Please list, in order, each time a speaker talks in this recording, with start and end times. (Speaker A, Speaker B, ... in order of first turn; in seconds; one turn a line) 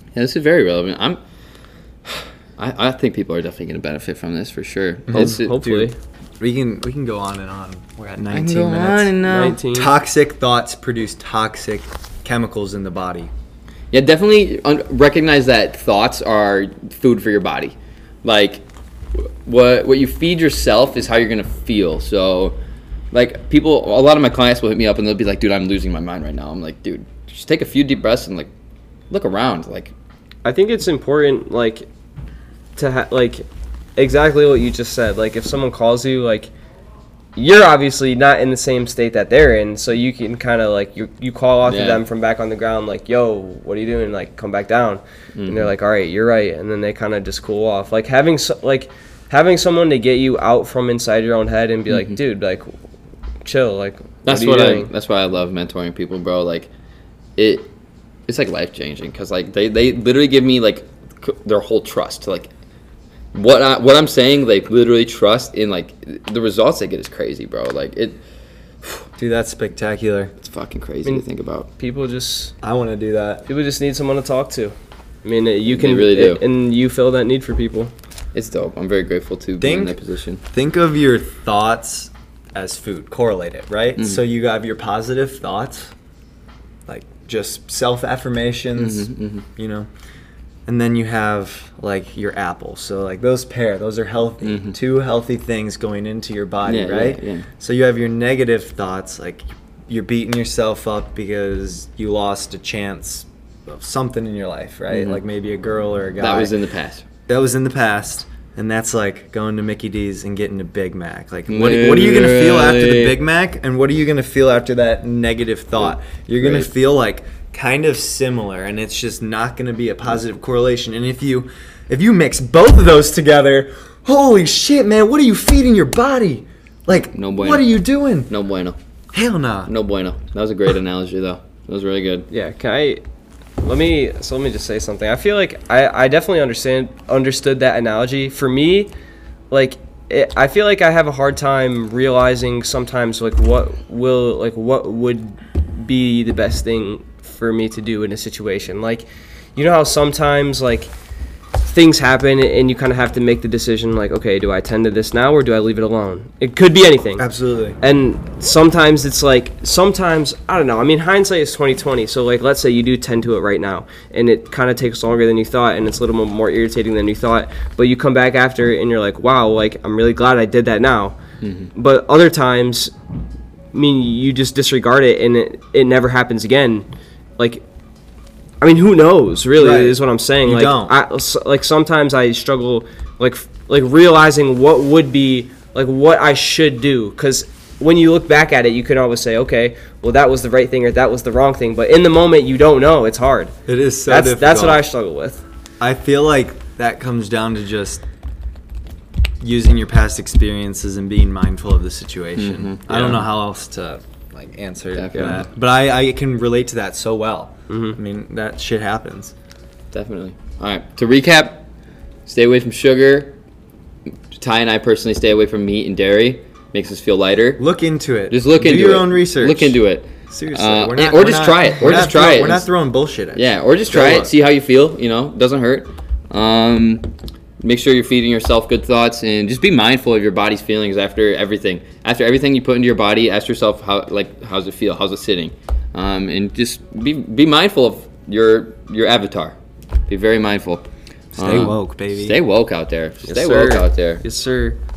Speaker A: 0.1-1.2
Speaker A: 2.1-5.9
Speaker B: 5.1-5.4
Speaker C: 5.1-6.0
Speaker B: 6.4-9.1
Speaker A: 8.3-9.6
Speaker C: 9.3-9.9
Speaker B: 9.7-13.3
Speaker A: 13.9-18.6
Speaker A: 19.2-22.6
Speaker A: 23.1-28.5
Speaker A: 29.1-29.9
Speaker C: 30.4-31.9
Speaker C: 32.8-33.5
Speaker C: 34.0-36.5
Speaker C: 37.4-52.7
Speaker A: 41.7-42.0
Speaker A: 45.4-45.7
Speaker A: 51.9-52.2
Speaker C: 53.4-54.9
Speaker A: 54.2-56.7
Speaker A: 57.4-57.7
Speaker A: 58.3-62.5
Speaker A: 63.3-68.2
Speaker B: 69.2-70.3
Speaker A: 70.4-71.7
Speaker C: 71.8-72.5
Speaker B: 72.6-73.5
Speaker C: 73.5-77.9
Speaker A: 75.7-76.4
Speaker A: 78.3-80.4
Speaker B: 79.6-80.0
Speaker B: 80.5-85.9
Speaker B: 86.9-89.9
Speaker A: 88.8-89.5
Speaker B: 90.7-106.5
Speaker A: 94.4-94.8
Speaker A: 96.6-97.5
Speaker A: 104.9-105.2
Speaker A: 106.2-107.0
Speaker B: 107.3-128.3
Speaker A: 111.5-113.2
Speaker A: 116.4-116.7
Speaker A: 126.9-128.8
Speaker B: 129.1-129.7
Speaker A: 129.7-132.3
Speaker C: 132.3-133.0
Speaker C: 133.6-138.9
Speaker C: 139.5-150.9
Speaker C: 151.6-157.2
Speaker B: 157.2-157.8
Speaker C: 157.8-171.2
Speaker A: 171.4-171.7
Speaker C: 171.8-172.9
Speaker C: 173.7-177.6
Speaker C: 178.6-193.5
Speaker B: 179.6-180.9
Speaker B: 193.7-194.8
Speaker C: 194.1-195.4
Speaker B: 195.8-198.0
Speaker B: 199.4-209.3
Speaker A: 202.4-203.3
Speaker A: 204.9-205.4
Speaker C: 205.1-205.4
Speaker C: 207.7-208.0
Speaker A: 209.9-211.7
Speaker A: 212.3-213.4
Speaker A: 214.3-217.6
Speaker B: 217.6-224.3
Speaker A: 218.3-222.7
Speaker A: 223.3-239.6
Speaker A: 240.1-240.8
Speaker B: 241.3-242.4
Speaker A: 241.4-244.2
Speaker C: 243.3-244.8